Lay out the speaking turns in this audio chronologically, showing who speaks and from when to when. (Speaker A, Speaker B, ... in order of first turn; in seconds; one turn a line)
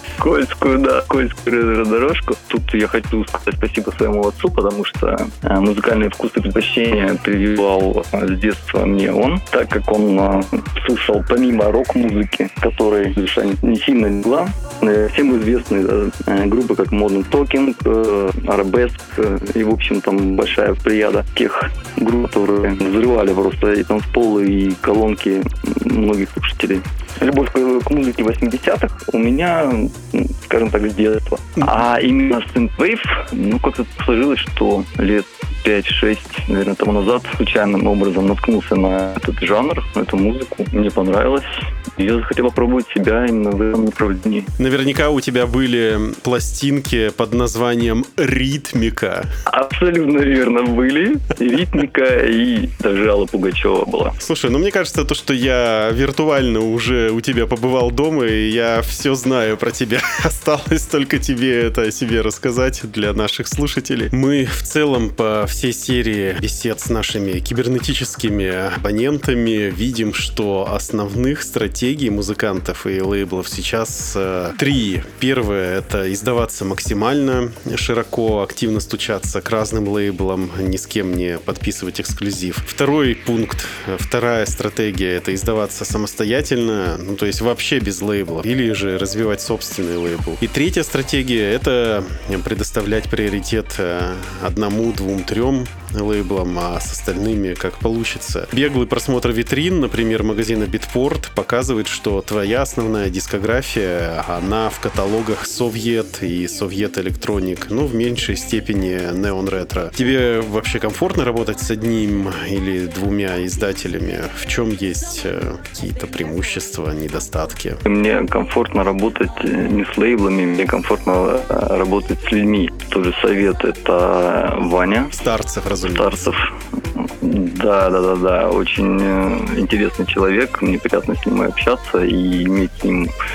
Speaker A: 0.2-44.5
Speaker B: 44.6-49.3
Speaker A: 49.5-54.2
Speaker B: 54.2-117.8
Speaker A: 117.9-125.1
Speaker B: 125.1-126.3
Speaker A: 125.8-126.4
Speaker A: 127.0-133.1